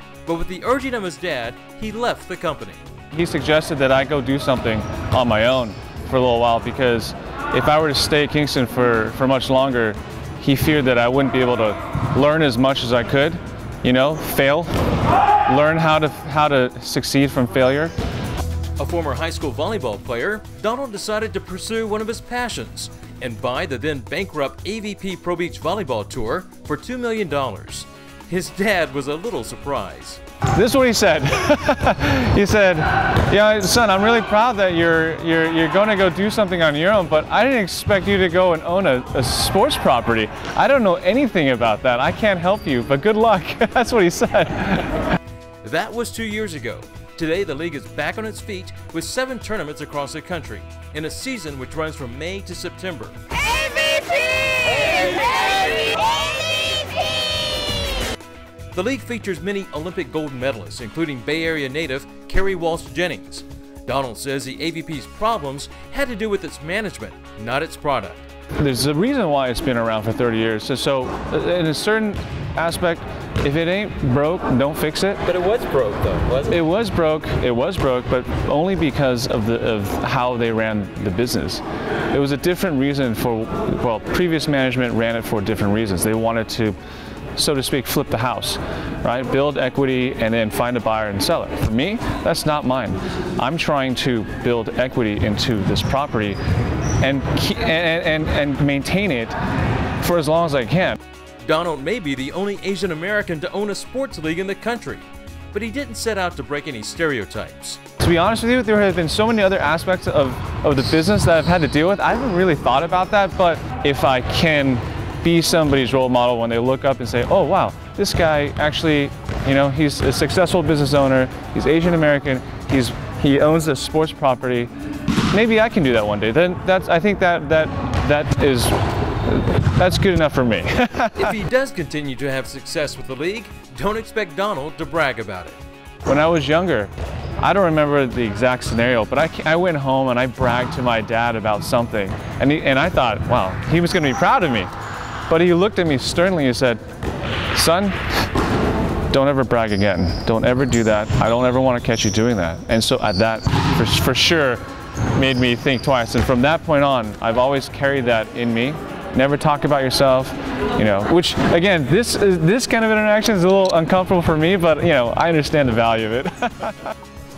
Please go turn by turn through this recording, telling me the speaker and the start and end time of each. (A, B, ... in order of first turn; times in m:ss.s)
0:00.3-0:02.8 A
0:03.1-0:14.7 B
0:15.5-0:17.9 B
0:18.8-0:30.2 A
0:30.6-0:45.1 B
0:45.6-0:53.2 A
0:58.7-1:08.3 A
1:08.6-1:15.2 B
1:15.2-1:16.6 A
1:16.5-1:26.8 B
1:27.4-1:36.4 B
1:37.0-1:39.4 B
1:40.0-1:41.0 B
1:41.4-1:47.8 A
1:48.0-2:04.7 B
2:05.3-2:11.3 B
2:11.2-2:15.6 A
2:16.1-2:24.7 B
2:25.3-2:26.8 B
2:27.5-2:28.3 B
2:29.1-2:34.6 B
2:35.1-2:46.9 B